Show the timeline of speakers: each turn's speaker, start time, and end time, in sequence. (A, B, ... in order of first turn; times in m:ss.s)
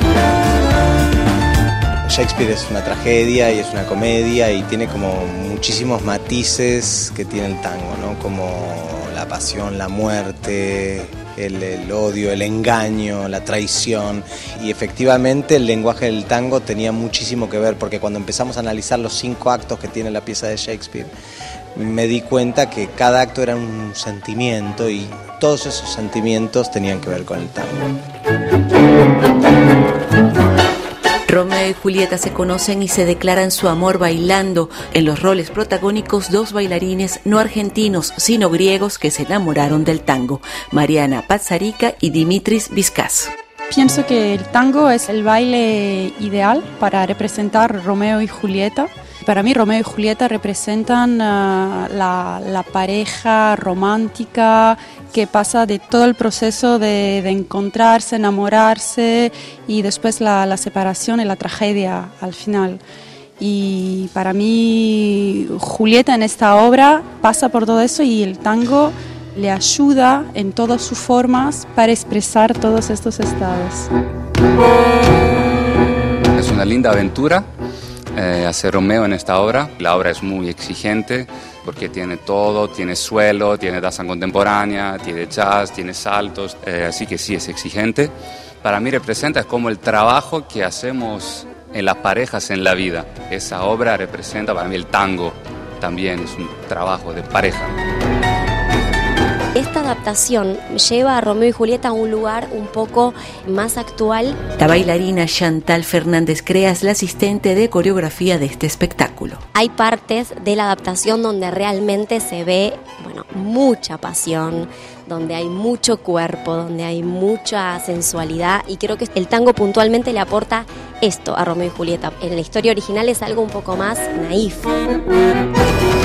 0:02.1-0:21.1 A
0:21.8-0:27.8 A
0:31.3-0:43.3 B
0:43.7-1:02.8 C
1:03.4-1:13.9 C
1:16.4-1:17.4 D
1:18.1-1:37.7 D
1:39.5-1:44.4 E
1:44.6-1:49.4 B
1:49.5-2:04.8 E